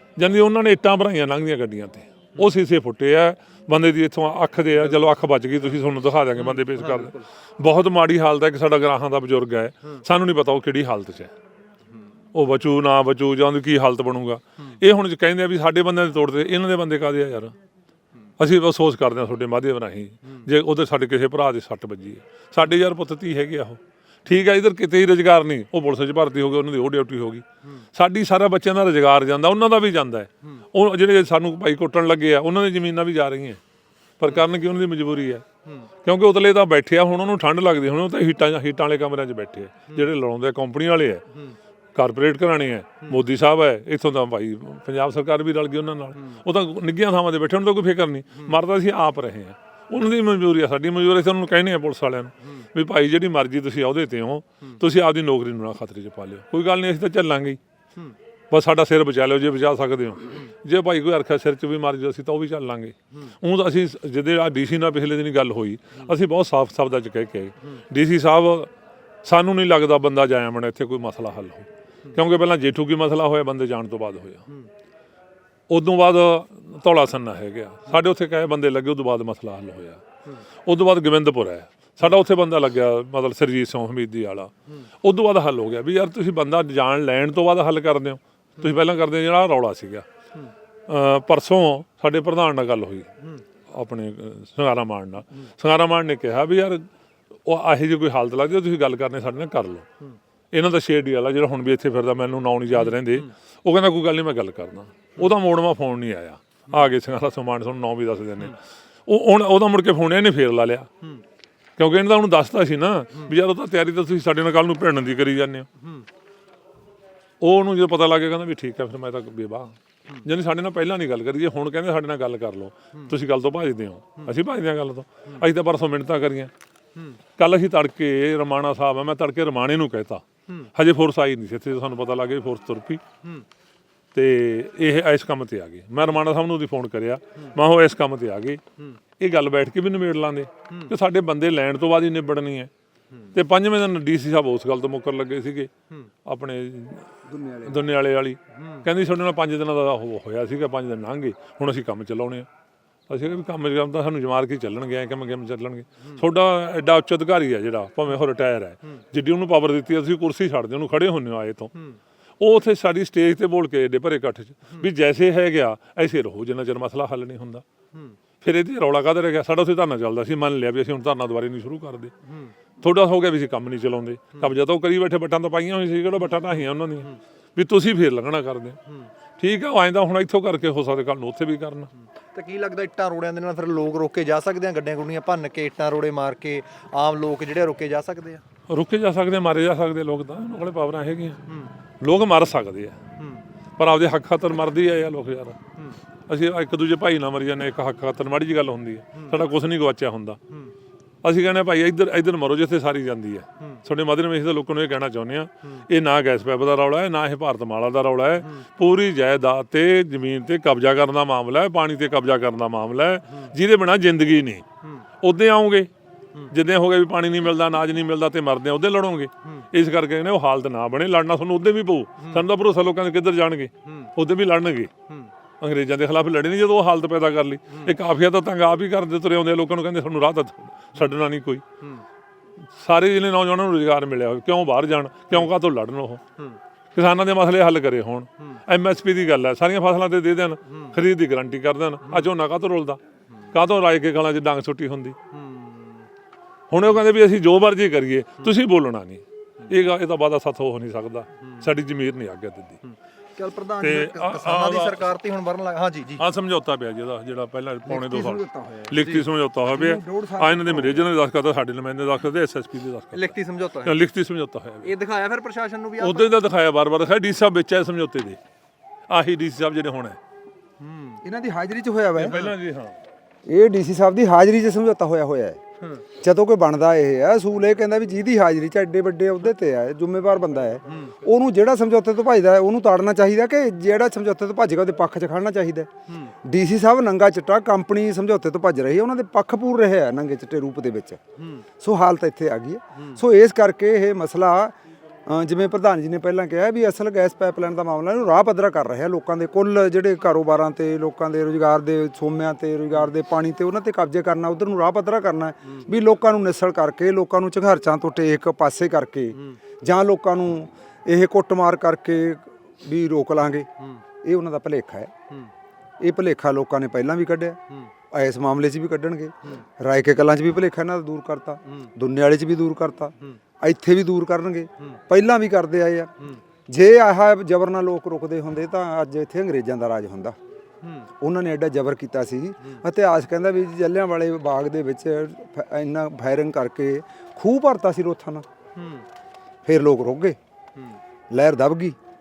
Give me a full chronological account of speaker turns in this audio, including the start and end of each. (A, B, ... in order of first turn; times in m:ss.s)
0:00.2-0:11.3 A
0:06.4-0:07.2 B
0:12.3-0:17.5 A
0:18.4-0:33.6 A
0:34.2-0:35.4 A
0:36.0-0:41.2 A
0:41.9-0:57.6 A
0:58.5-1:08.7 A
1:09.2-1:14.4 A
1:15.7-1:20.0 A
1:20.6-1:24.5 A
1:25.0-1:30.0 A
1:30.9-1:33.1 A
1:33.7-1:36.8 A
1:37.4-1:39.8 A
1:40.5-1:48.6 A
1:49.1-1:50.9 A
1:51.8-1:55.7 A
1:57.4-2:06.5 A
2:07.4-2:10.2 A
2:10.7-2:13.0 A
2:14.1-2:18.6 A
2:19.2-2:22.7 A
2:23.3-2:25.7 A
2:26.2-2:27.1 A
2:27.3-2:27.8 C
2:27.6-2:32.5 A
2:28.6-2:28.8 B
2:33.1-2:41.7 A
2:42.4-2:47.6 A
2:48.4-2:52.1 A
2:52.3-2:52.5 B
2:52.8-2:58.8 A
2:59.4-3:01.9 A
3:02.3-3:08.4 B
3:08.7-3:11.4 A
3:12.0-3:13.0 A
3:13.2-3:13.4 B
3:13.8-3:15.6 A
3:16.3-3:20.4 A
3:21.2-3:34.6 A
3:35.2-3:35.9 A
3:36.5-3:44.9 A
3:45.6-3:51.6 A
3:52.8-3:56.2 A
3:56.9-4:03.0 A
4:03.5-4:05.2 A
4:05.3-4:06.1 B
4:06.7-4:12.8 A
4:13.4-4:16.2 B
4:13.8-4:15.0 A
4:16.2-4:24.9 A
4:17.9-4:19.0 C
4:18.9-4:19.2 B
4:19.6-4:21.1 C
4:23.1-4:24.0 B
4:24.8-4:26.3 B
4:26.0-4:28.4 A
4:29.1-4:30.2 A
4:30.8-4:31.2 B
4:31.2-4:32.4 C
4:32.2-4:33.0 A
4:33.5-4:35.6 C
4:36.2-4:45.9 C
4:40.9-4:41.1 B
4:46.4-4:51.2 C
4:51.4-4:51.6 B
4:51.8-4:54.7 C
4:55.2-5:13.7 C
5:14.2-5:15.1 C
5:16.0-5:17.6 C
5:18.1-5:26.1 C
5:26.7-5:30.4 C
5:30.8-5:31.1 B
5:31.2-5:38.4 C
5:38.8-5:39.0 B
5:39.6-5:40.4 C
5:41.3-5:42.0 C